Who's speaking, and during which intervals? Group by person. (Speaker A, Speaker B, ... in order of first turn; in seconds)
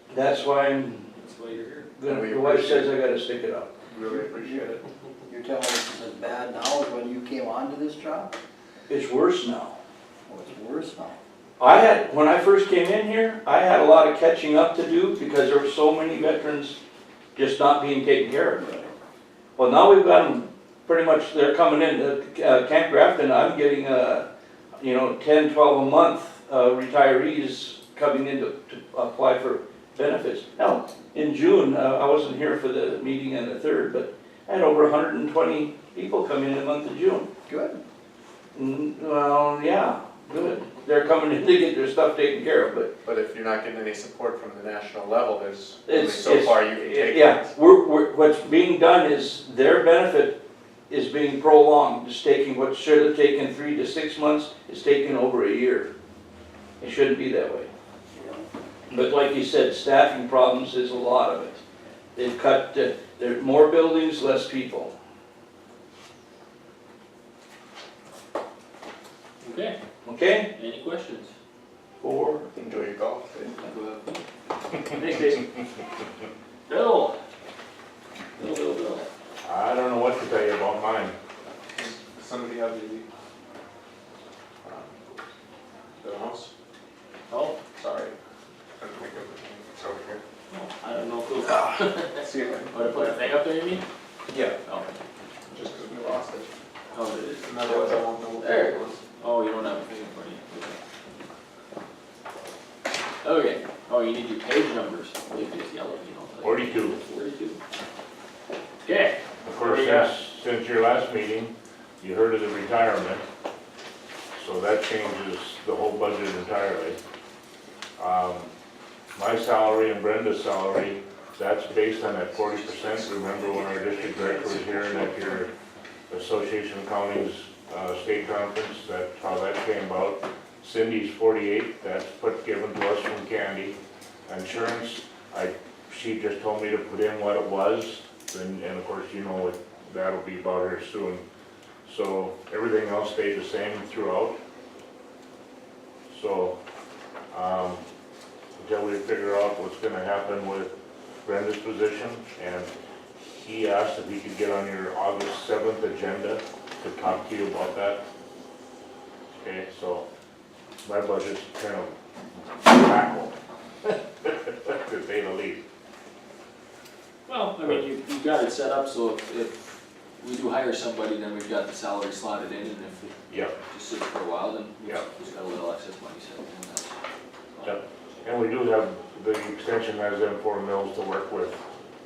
Speaker A: 0.1-1.1, 2.0-3.7, 8.9-9.8, 11.6-16.8, 17.4-18.9, 19.6-24.3, 24.8-37.3, 38.5-42.9, 45.9-50.4, 50.9-55.9, 56.8-57.7, 58.9-61.6, 62.1-64.9, 70.0-70.5, 72.0-72.5
Speaker B: 1.2-1.9, 69.4-69.8, 70.5-71.3, 73.6-74.2, 74.9-75.5, 76.7-77.2, 78.4-79.1, 87.3-87.6, 90.5-93.8, 96.9-100.8, 103.2-107.6, 108.8-110.1, 167.3-173.2, 173.7-176.9, 177.6-177.8
Speaker C: 2.1-2.9, 3.9-4.9, 43.0-47.5, 72.5-73.6, 81.8-83.1, 84.6-85.0, 86.0-86.5, 87.8-88.2, 88.8-90.2, 92.2-93.2, 94.3-94.6, 95.5-96.5, 97.4-99.0, 123.4-125.3
Speaker D: 5.3-8.4, 10.3-11.2, 37.5-37.8
Speaker E: 79.4-81.1, 106.4-107.0, 109.5-113.2, 114.3-117.0, 118.0-118.5, 119.2-125.5, 126.1-141.2, 141.9-144.4, 146.1-146.6, 147.3-147.8, 148.6-152.7, 153.3-158.0, 159.3-160.1, 160.8-161.9, 162.6-163.3, 163.9-165.6, 173.3-173.6, 177.6-181.6